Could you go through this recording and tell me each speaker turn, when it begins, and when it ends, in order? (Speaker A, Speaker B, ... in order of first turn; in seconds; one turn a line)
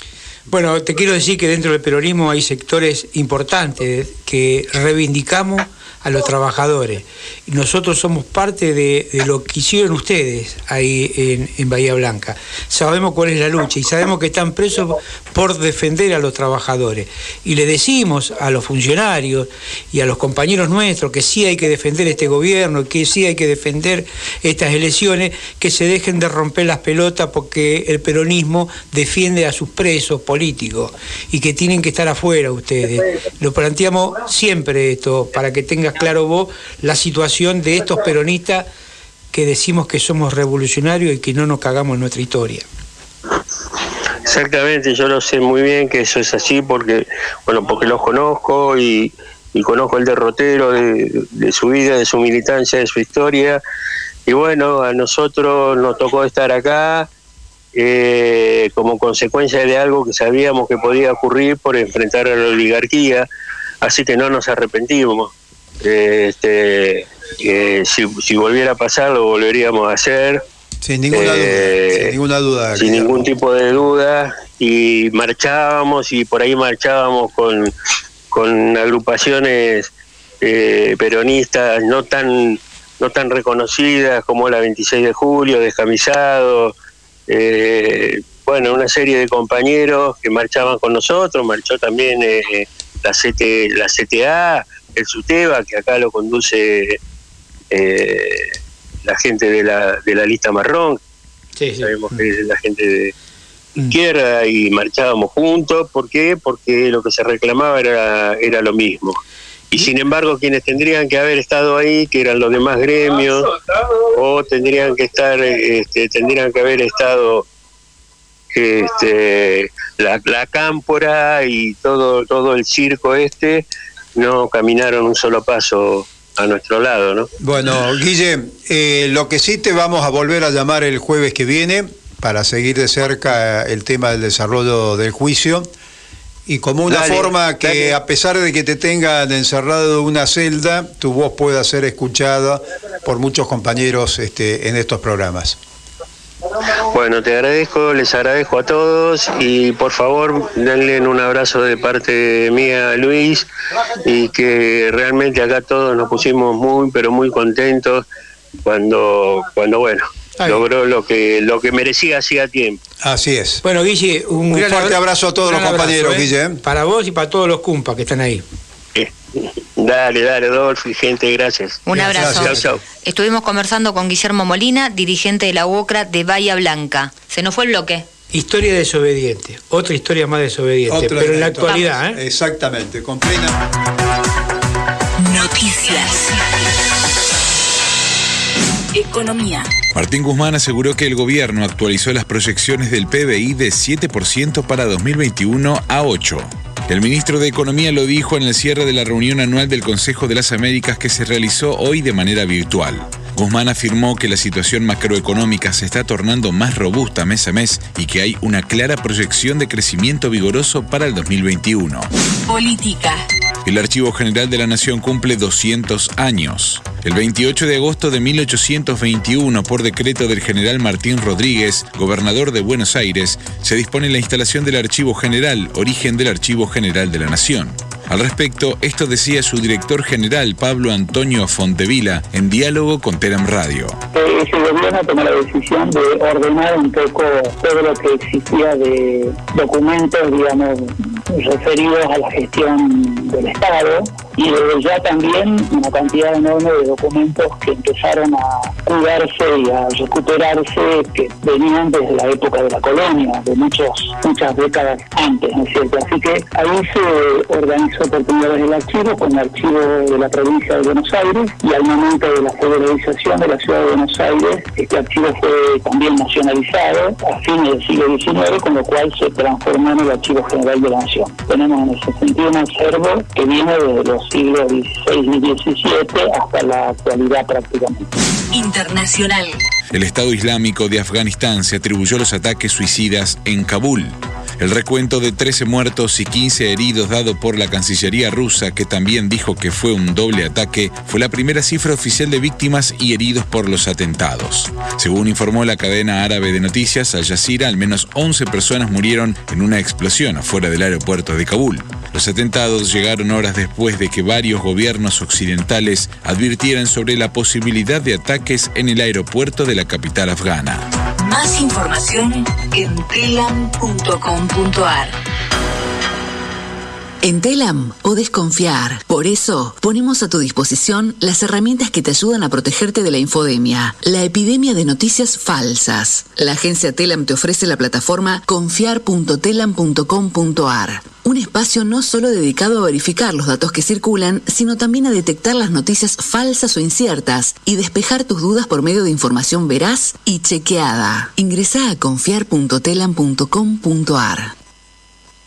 Speaker A: 0.5-38.6
Speaker A: 39.3-42.6
Speaker B: 44.2-53.6
Speaker B: 54.3-57.1
Speaker B: 57.7-63.3
Speaker B: 63.8-70.4
Speaker C: 70.8-73.3
Speaker B: 71.1-72.1
Speaker B: 72.8-77.7
Speaker B: 78.3-79.9
Speaker B: 80.4-86.7
Speaker B: 87.3-97.0
Speaker B: 97.7-101.0
Speaker A: 101.6-102.2
Speaker B: 101.8-103.1
Speaker B: 103.8-109.2
Speaker B: 109.7-113.5
Speaker B: 114.0-117.5
Speaker B: 118.5-127.3
Speaker C: 127.4-135.7
Speaker C: 136.5-145.6
Speaker A: 136.9-137.9
Speaker B: 146.8-153.5
Speaker B: 154.0-158.1
Speaker B: 158.6-162.8
Speaker C: 163.0-163.6
Speaker A: 163.6-168.4
Speaker C: 164.5-166.6
Speaker B: 168.9-172.8
Speaker D: 171.8-178.0
Speaker A: 171.9-172.7
Speaker C: 172.1-172.5
Speaker A: 178.3-182.2
Speaker C: 180.9-183.6
Speaker E: 185.2-186.4
Speaker E: 188.9-189.7
Speaker F: 189.9-212.1
Speaker E: 212.5-213.2
Speaker F: 213.6-234.0
Speaker G: 234.1-278.1
Speaker E: 278.5-279.6
Speaker F: 279.9-310.9
Speaker E: 311.2-315.1
Speaker H: 317.2-344.5